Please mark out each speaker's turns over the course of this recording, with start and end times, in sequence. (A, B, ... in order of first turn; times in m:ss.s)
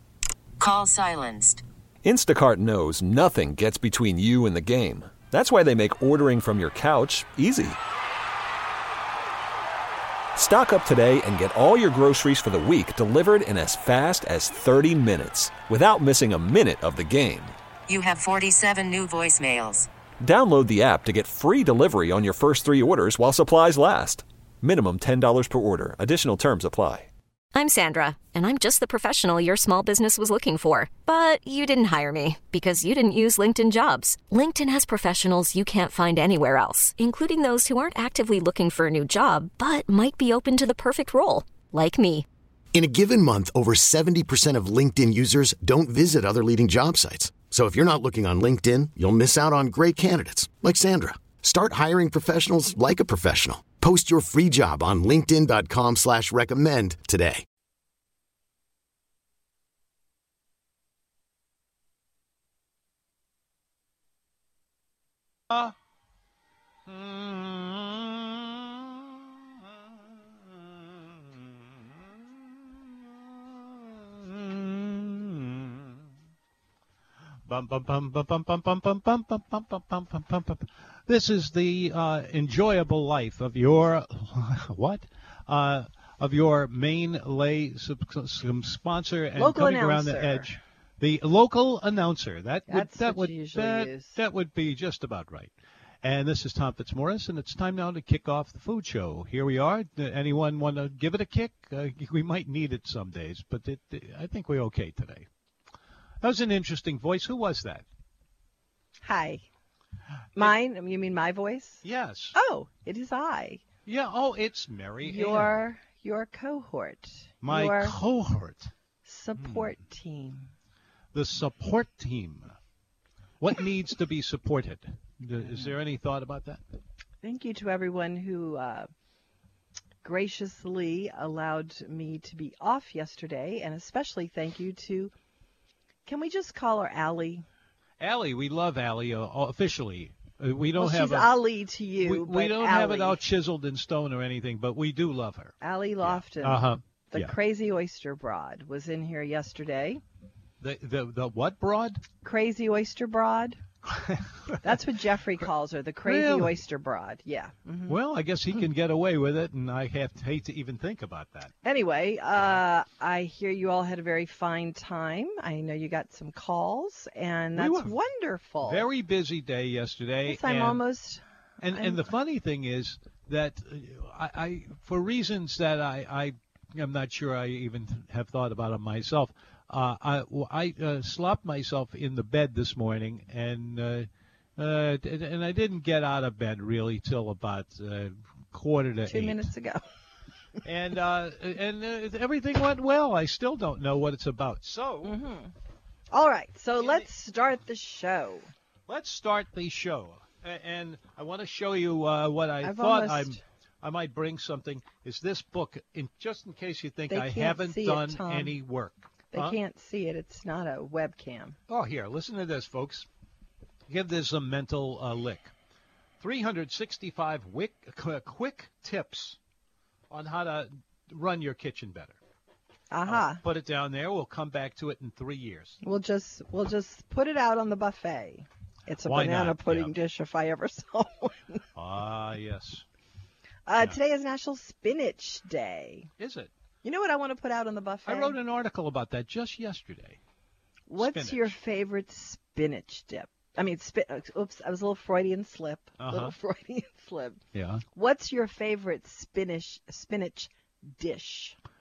0:00.6-0:01.6 A
0:02.0-0:07.8 B
0:10.4-0:17.5 B
0:17.9-0:19.9 A
0:20.2-0:27.1 B
0:27.6-0:42.3 C
0:42.7-0:57.4 D
1:06.9-1:09.3 E
1:10.4-1:16.0 E
1:17.5-1:35.5 E
1:29.4-1:30.5 F
1:32.7-1:34.2 F
1:36.0-1:45.3 E
1:46.2-1:47.8 E
1:49.0-1:49.4 F
1:50.4-1:51.8 F
1:51.8-1:52.4 E
1:52.3-1:53.6 F
1:53.9-1:55.6 E
1:55.0-1:58.0 F
1:57.4-1:58.7 E
1:59.1-2:00.5 F
1:59.4-1:59.7 E
2:01.1-2:02.5 E
2:03.4-2:06.6 E
2:07.2-2:08.9 F
2:10.0-2:15.1 F
2:16.1-2:17.4 F
2:18.0-2:21.3 E
2:20.8-2:23.2 F
2:22.0-2:27.3 E
2:25.6-2:30.0 F
2:30.6-2:32.0 E
2:32.2-2:33.6 F
2:33.9-2:34.8 E
2:34.6-2:38.0 F
2:36.0-2:36.6 E
2:37.9-2:41.5 E
2:41.6-2:48.9 F
2:47.6-2:47.9 E
2:48.6-2:50.8 E
2:50.3-2:51.2 F
2:51.6-3:09.5 E
2:51.7-2:52.1 F
3:09.1-3:09.8 F
3:10.6-3:15.2 E
3:15.0-3:15.5 F
3:16.1-3:18.5 F
3:16.8-3:17.1 E
3:18.9-3:29.6 E
3:22.6-3:23.4 F
3:27.1-3:28.6 F
3:29.3-3:31.6 F
3:31.7-3:33.1 E
3:33.9-3:35.5 E
3:36.2-3:39.4 E
3:40.1-3:42.2 E
3:42.9-3:43.4 F
3:43.1-3:45.8 E
3:45.8-3:51.6 F
3:49.0-3:49.9 E
3:51.8-3:52.8 E
3:53.7-3:56.1 F
3:56.2-3:56.5 E
3:56.8-3:58.4 F
3:58.1-4:00.2 E
4:00.9-4:07.4 F
4:01.0-4:01.6 E
4:06.0-4:06.4 E
4:07.5-4:07.8 E
4:08.0-4:11.6 F